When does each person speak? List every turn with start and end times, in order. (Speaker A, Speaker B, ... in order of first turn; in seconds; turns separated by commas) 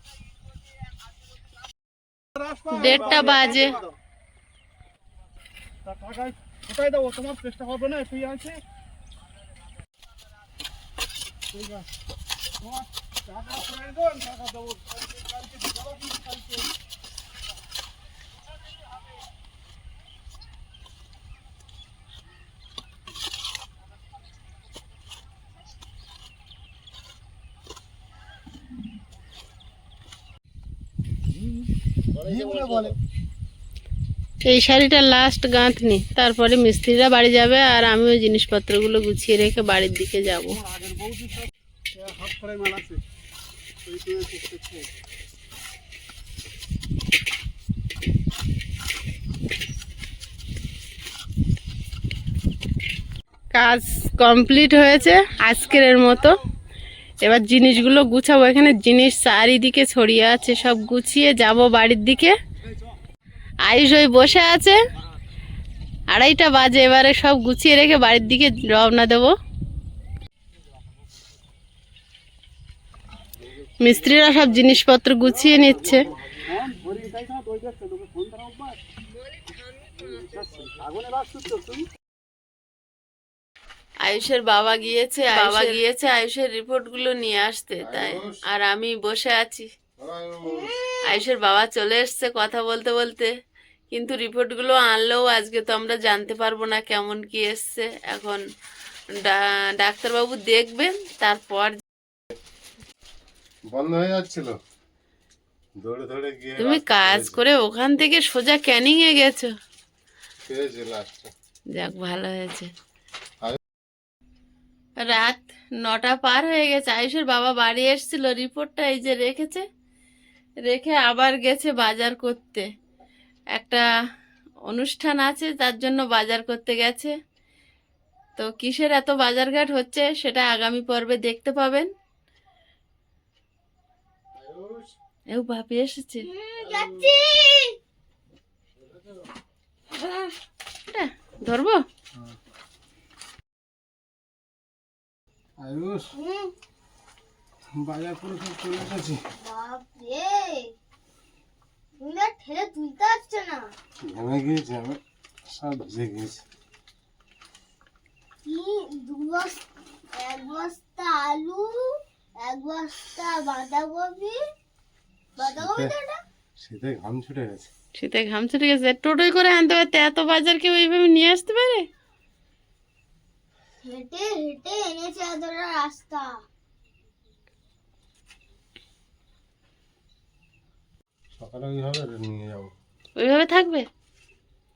Speaker A: 2.4-2.8, Speaker B: 2.7-3.8, Speaker A: 5.9-8.6, Speaker A: 13.3-14.8, Speaker A: 15.5-16.6, Speaker A: 32.4-32.9, Speaker B: 34.5-40.6, Speaker A: 40.8-41.3, Speaker A: 42.0-43.0, Speaker A: 43.9-44.9, Speaker B: 53.5-56.4, Speaker B: 57.2-62.4, Speaker B: 63.6-64.8, Speaker B: 66.1-69.3, Speaker B: 73.8-76.1, Speaker A: 76.5-78.8, Speaker A: 80.2-81.8, Speaker B: 84.0-89.7, Speaker C: 87.8-88.4, Speaker C: 90.0-90.7, Speaker D: 90.5-91.0, Speaker B: 91.0-93.3, Speaker B: 93.9-98.4, Speaker B: 99.1-101.8, Speaker C: 103.7-104.6, Speaker C: 105.8-107.4, Speaker B: 106.6-109.5, Speaker C: 110.5-111.3, Speaker B: 111.7-112.7, Speaker B: 115.0-119.7, Speaker B: 120.7-122.7, Speaker B: 123.5-123.8, Speaker B: 124.7-127.1, Speaker B: 128.4-131.9, Speaker C: 134.4-134.9, Speaker B: 135.3-136.3, Speaker D: 136.2-137.8, Speaker C: 136.7-137.2, Speaker D: 140.0-140.3, Speaker B: 140.8-141.8, Speaker C: 145.6-146.1, Speaker D: 146.2-146.5, Speaker C: 147.7-149.2, Speaker D: 149.4-150.7, Speaker D: 152.0-153.7, Speaker C: 154.0-156.4, Speaker D: 158.4-164.4, Speaker D: 165.4-166.2, Speaker C: 165.4-165.9, Speaker C: 166.6-167.7, Speaker B: 168.0-171.9, Speaker D: 173.8-176.4, Speaker C: 181.3-182.7, Speaker B: 183.2-183.9